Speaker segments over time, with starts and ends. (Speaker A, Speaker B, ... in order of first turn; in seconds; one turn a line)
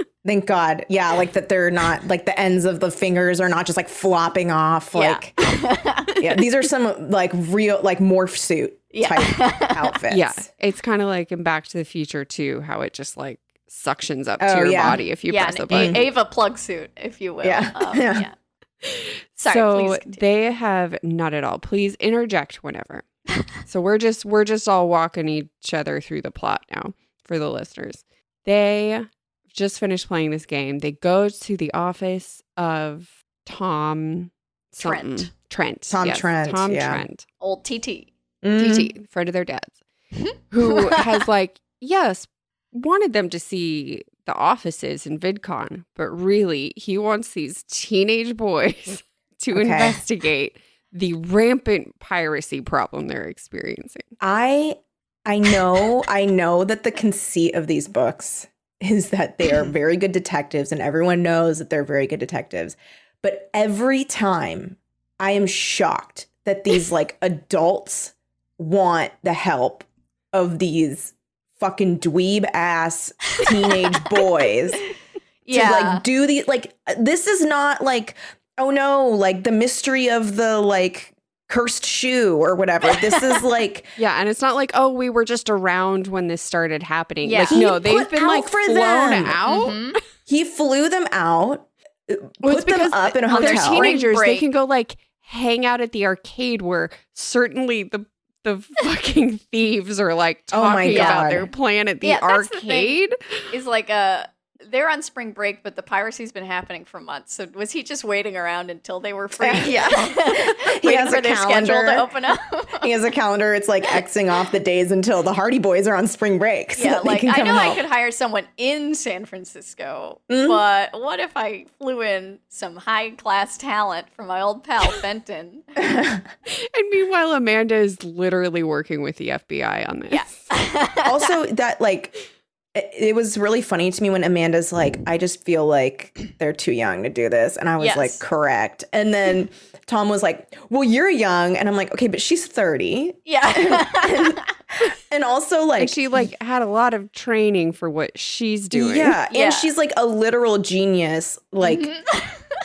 Speaker A: 0.2-5.3
Speaker B: 4.9-6.2
Speaker A: 6.2-10.4
Speaker B: 8.9-9.9
Speaker C: 10.1-16.1
Speaker A: 14.4-15.0
Speaker B: 15.3-18.3
Speaker A: 15.7-16.1
Speaker A: 17.4-18.3
Speaker C: 18.8-23.0
Speaker B: 19.4-20.2
Speaker C: 23.6-37.2
Speaker B: 34.8-35.3
Speaker A: 35.9-37.0
Speaker B: 37.4-38.1
Speaker A: 38.4-38.9
Speaker C: 38.5-39.8
Speaker B: 40.2-41.0
Speaker C: 40.5-54.1
Speaker A: 49.5-50.0
Speaker A: 54.2-74.8
Speaker B: 75.5-76.0
Speaker A: 75.5-83.9
Speaker C: 84.0-90.0
Speaker B: 87.2-87.7
Speaker A: 87.4-89.4
Speaker B: 89.4-90.0
Speaker A: 90.3-93.9
Speaker C: 92.4-103.1
Speaker B: 93.3-94.5
Speaker A: 100.5-101.5
Speaker B: 100.9-101.4
Speaker B: 102.0-103.0
Speaker B: 103.5-112.9
Speaker A: 109.4-112.1
Speaker A: 112.8-117.8
Speaker B: 116.8-125.7
Speaker A: 120.3-120.6
Speaker A: 125.8-126.2
Speaker C: 126.5-130.5
Speaker B: 130.1-131.3
Speaker A: 131.0-132.2
Speaker A: 132.7-146.3
Speaker B: 137.8-138.2
Speaker B: 143.2-144.5
Speaker C: 145.8-149.2
Speaker A: 148.7-151.9
Speaker B: 149.3-149.7
Speaker B: 151.6-152.4